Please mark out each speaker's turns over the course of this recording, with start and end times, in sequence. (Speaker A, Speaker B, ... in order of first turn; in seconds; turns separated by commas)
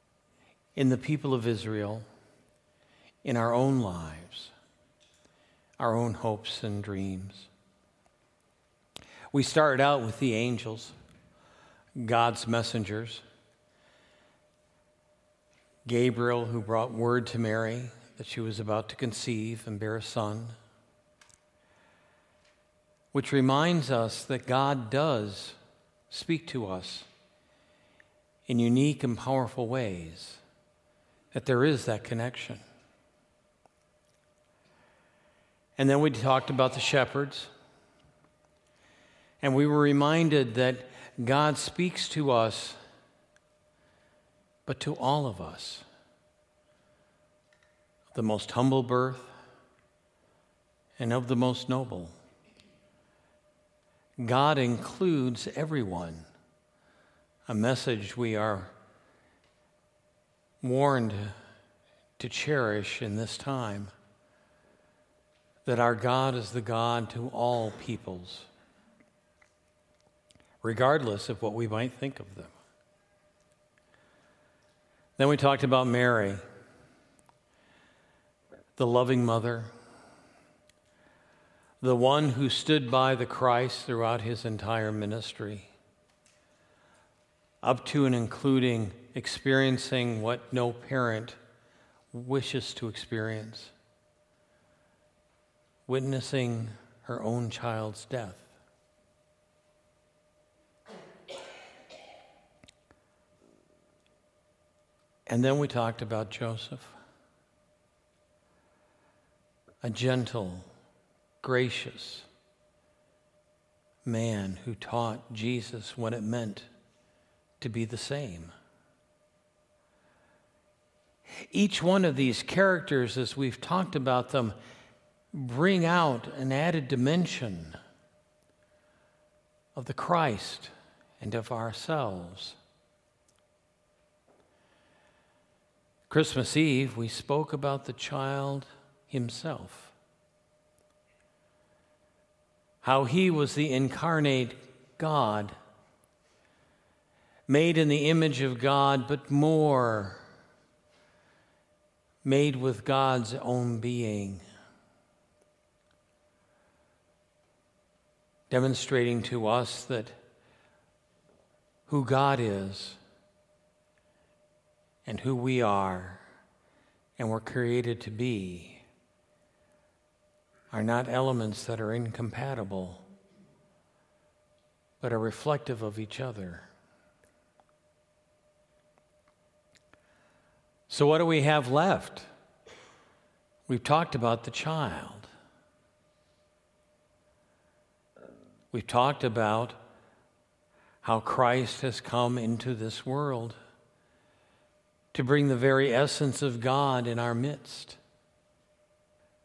Speaker A: 0.7-2.0, Speaker A: 3.2-4.5, Speaker A: 5.8-7.5, Speaker A: 9.3-10.9, Speaker A: 12.0-13.2, Speaker A: 15.8-20.6, Speaker A: 23.1-25.6, Speaker A: 26.1-27.1, Speaker A: 28.5-30.4, Speaker A: 31.3-32.6, Speaker A: 35.8-37.5, Speaker A: 39.4-42.8, Speaker A: 44.6-45.8, Speaker A: 48.1-49.3, Speaker A: 51.0-52.2, Speaker A: 54.2-56.3, Speaker A: 57.5-58.7, Speaker A: 60.6-61.3, Speaker A: 62.2-63.9, Speaker A: 65.6-68.5, Speaker A: 70.6-72.5, Speaker A: 75.2-76.4, Speaker A: 78.8-79.7, Speaker A: 81.8-85.7, Speaker A: 87.6-91.4, Speaker A: 92.1-93.7, Speaker A: 95.9-98.5, Speaker A: 105.3-107.0, Speaker A: 109.8-110.7, Speaker A: 111.4-112.3, Speaker A: 114.0-116.7, Speaker A: 117.6-118.5, Speaker A: 121.4-124.5, Speaker A: 125.3-127.8, Speaker A: 129.7-132.6, Speaker A: 136.1-139.9, Speaker A: 142.8-145.5, Speaker A: 147.5-150.2, Speaker A: 152.2-154.4, Speaker A: 158.5-160.2, Speaker A: 161.9-163.0, Speaker A: 165.0-166.2, Speaker A: 167.2-168.8, Speaker A: 170.7-173.0, Speaker A: 175.0-176.7, Speaker A: 180.9-182.3, Speaker A: 183.7-185.3, Speaker A: 188.7-189.8, Speaker A: 191.0-193.6, Speaker A: 195.1-198.0